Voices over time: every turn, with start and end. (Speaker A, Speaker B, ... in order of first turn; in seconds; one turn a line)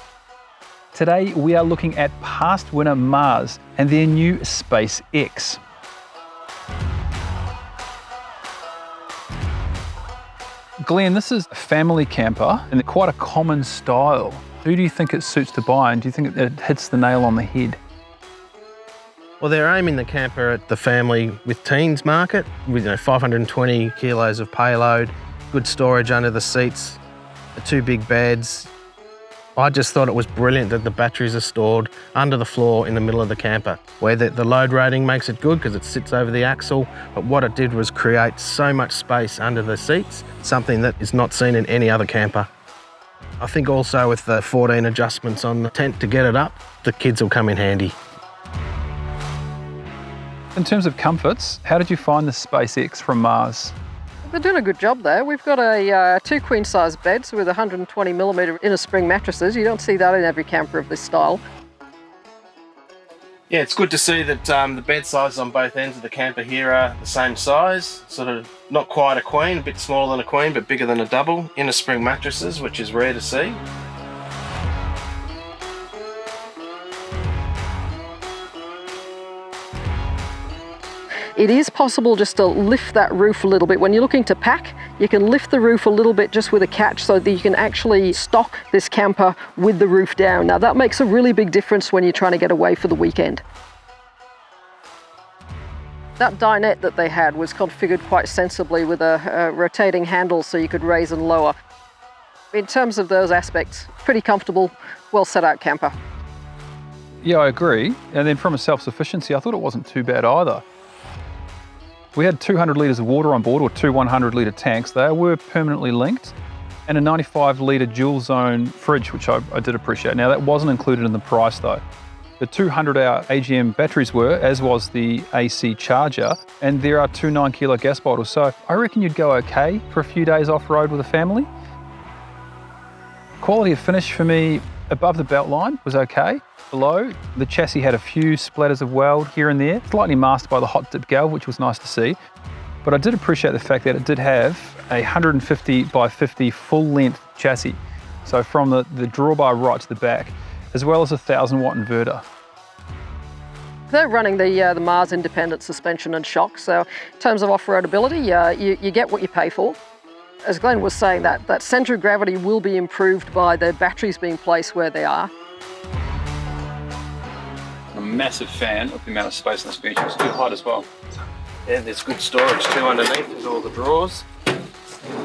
Speaker A: 0.9-5.6
Speaker A: 10.8-17.8
Speaker B: 19.4-27.0
Speaker B: 27.6-28.7
Speaker B: 29.6-42.5
Speaker B: 43.4-48.0
Speaker A: 50.5-53.8
Speaker C: 54.2-61.4
Speaker B: 63.5-73.6
Speaker C: 81.4-93.4
Speaker C: 96.2-101.5
Speaker C: 102.5-106.0
Speaker A: 107.2-110.6
Speaker A: 112.1-116.3
Speaker A: 116.9-121.8
Speaker A: 122.4-131.5
Speaker A: 133.4-142.2
Speaker A: 142.8-152.2
Speaker C: 153.9-159.8
Speaker C: 160.4-165.3
Speaker A: 167.9-170.9
Speaker B: 171.7-174.2